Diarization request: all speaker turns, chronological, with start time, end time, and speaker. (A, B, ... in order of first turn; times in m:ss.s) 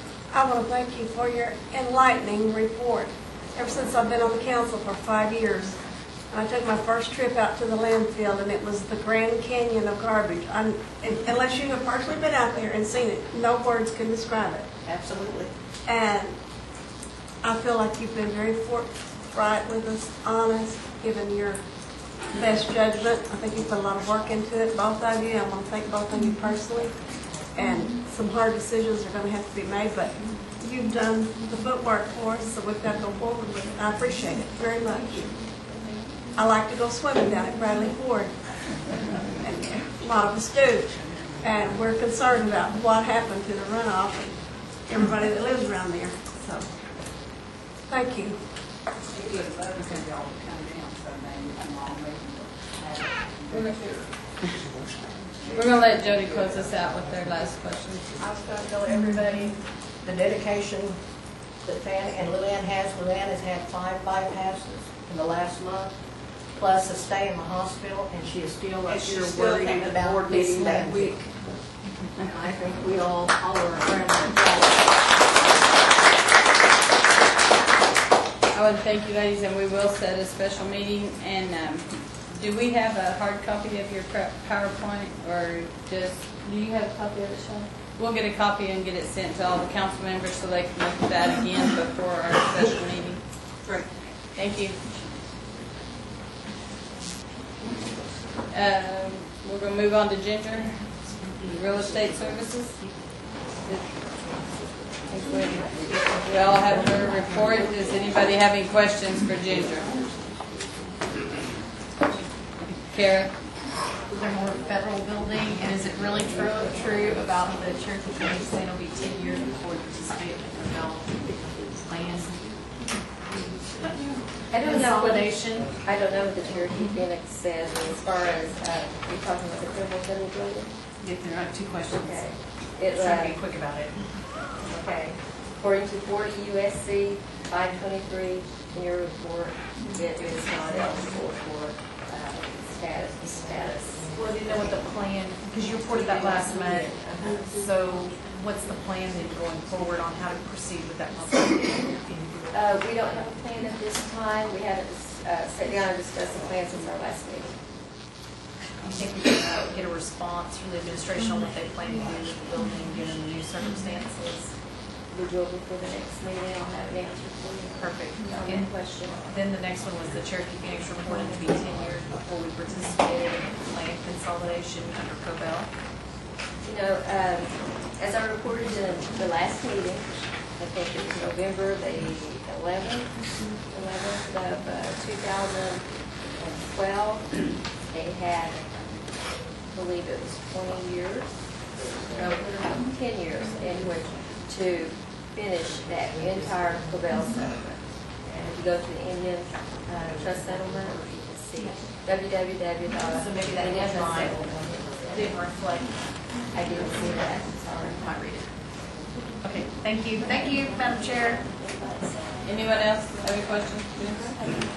0:00.3-0:14.7 A
0:14.8-0:15.5 B
0:15.9-0:16.4 A
0:17.4-0:21.6 A
0:22.3-0:27.0 A
0:27.5-0:35.4 A
0:36.4-0:38.4 A
0:39.4-0:46.7 A
0:47.9-0:48.4 A
0:49.8-0:50.0 C
0:53.5-0:53.8 C
0:55.5-0:58.1 C
0:58.2-1:01.0 D
1:01.6-1:05.9 D
1:06.5-1:11.3 D
1:08.9-1:11.3 B
1:12.2-1:14.4 D
1:18.5-1:33.2 C
1:34.4-1:34.8 C
1:38.5-1:42.9 C
1:43.6-1:43.9 C
1:45.1-1:46.0 E
1:45.3-1:49.9 C
1:52.9-1:53.3 C
1:54.1-2:02.7 F
2:04.5-2:05.8 F
2:04.5-2:10.7 E
2:11.0-2:14.0 F
2:12.0-2:13.4 E
2:14.6-2:24.8 E
2:20.6-2:21.0 F
2:24.1-2:32.0 F
2:25.9-2:27.5 E
2:32.5-2:37.6 E
2:38.9-2:44.5 F
2:45.1-2:49.2 E
2:47.8-2:48.7 F
2:49.2-2:55.7 F
2:56.6-3:05.8 E
3:06.4-3:08.7 E
3:09.7-3:11.5 E
3:12.1-3:25.3 E
3:23.0-3:24.6 F
3:25.1-3:26.0 F
3:26.5-3:28.0 E
3:28.0-3:28.5 F
3:29.4-3:31.4 F
3:32.4-3:34.4 C